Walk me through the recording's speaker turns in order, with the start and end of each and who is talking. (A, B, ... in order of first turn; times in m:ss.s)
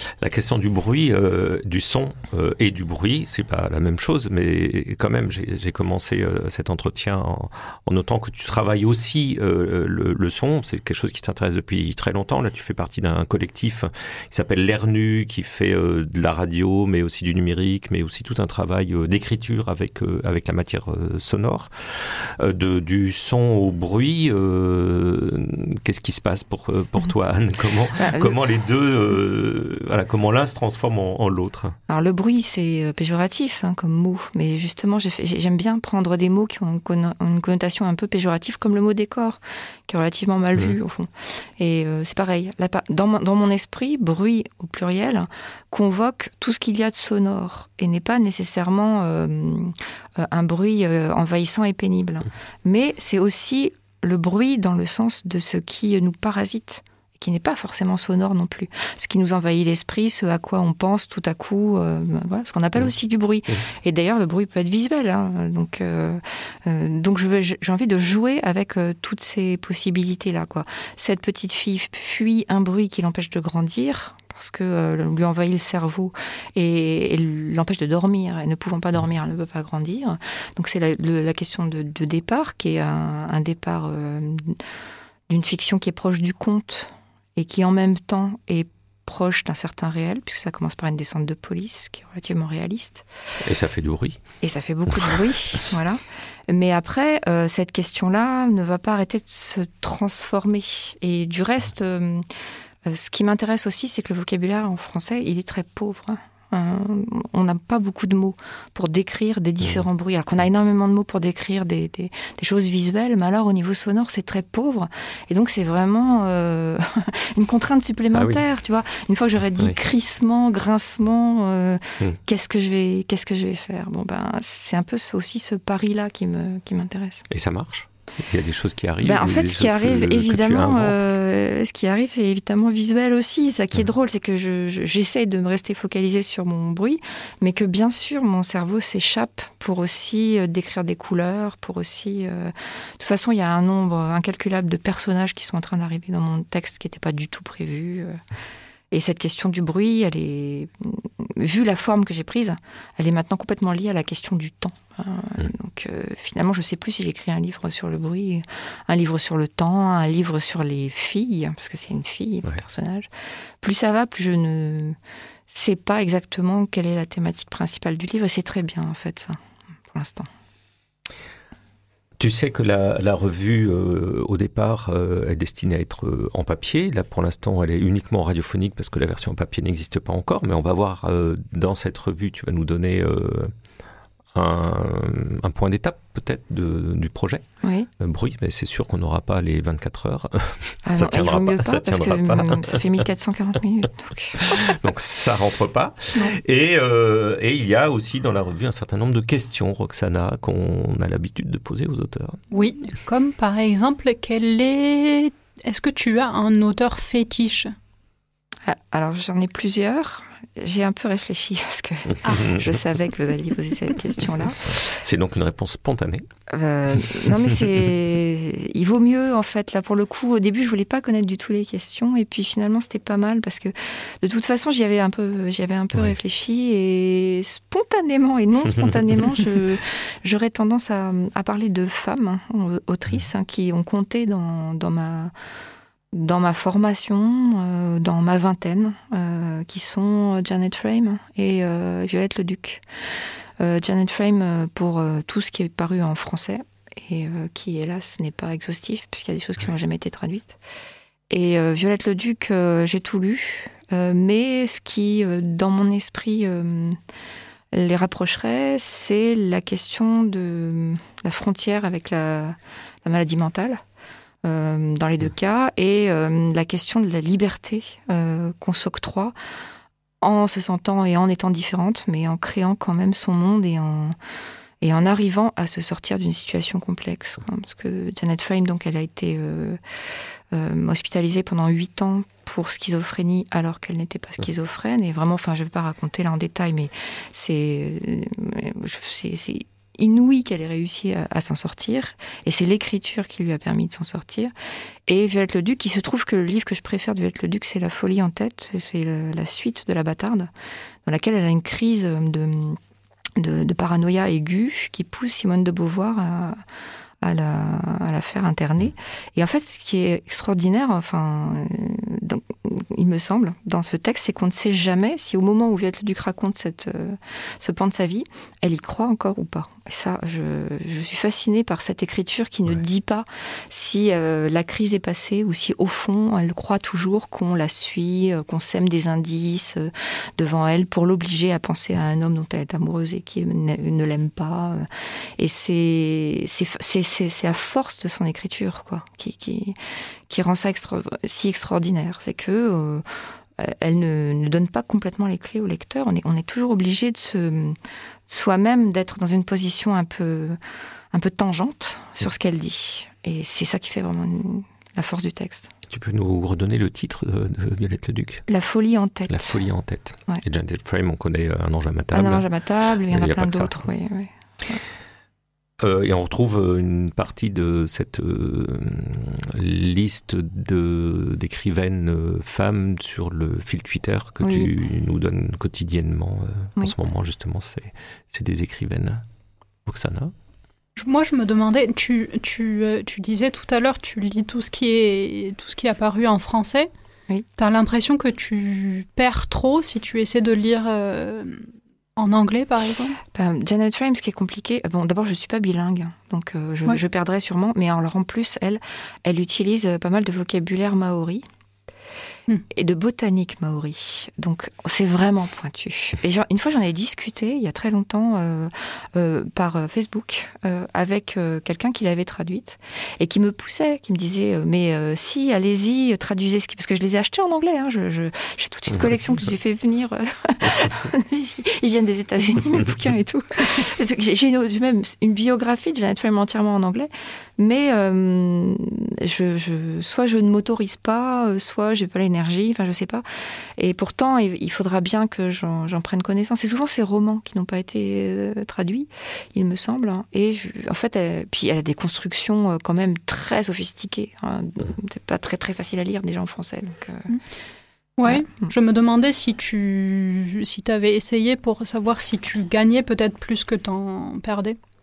0:00.2-0:31.8 A
0:28.0-0:28.4 B
0:31.9-1:24.6 B
1:25.3-1:33.0 B
1:33.4-1:34.2 A
1:34.4-1:42.2 B
1:42.8-2:07.2 B
1:58.1-1:58.4 A
2:07.3-2:11.0 A
2:09.0-2:28.2 B
2:28.9-2:43.1 B
2:43.6-2:45.0 B
2:45.5-2:49.4 B
2:49.9-2:50.3 B
2:52.2-3:03.5 A
3:04.3-3:07.4 A
3:07.6-3:07.9 B
3:08.0-3:12.9 A
3:10.8-3:14.6 B
3:14.4-3:22.4 A
3:22.5-3:27.7 C
3:28.6-3:34.7 B
3:32.3-3:32.6 A
3:34.7-3:36.3 A
3:36.5-3:55.3 B
3:56.1-4:02.8 B
4:03.6-4:10.6 B
4:11.3-4:17.0 B
4:17.7-4:23.8 B
4:24.4-4:29.3 B
4:30.2-4:34.1 B
4:34.8-4:39.8 B
4:40.5-4:54.5 B
4:55.1-5:00.5 B
5:01.0-5:02.8 B
5:03.4-5:06.6 B
5:07.2-5:34.8 B
5:35.4-5:39.8 B
5:40.3-5:43.0 B
5:43.6-5:47.8 B
5:48.3-5:50.6 B
5:51.1-5:55.7 B
5:55.9-5:58.4 A
5:58.5-5:59.6 B
5:59.3-6:02.5 A
6:02.1-6:04.8 B
6:03.1-6:03.7 A
6:05.8-6:19.2 A
6:14.4-6:14.7 B
6:19.8-6:20.3 A
6:21.0-6:26.9 C
6:27.6-6:33.2 C
6:33.3-6:41.4 B
6:42.7-7:13.2 B
7:13.8-7:27.3 B
7:28.2-7:34.8 C
7:28.2-7:28.7 B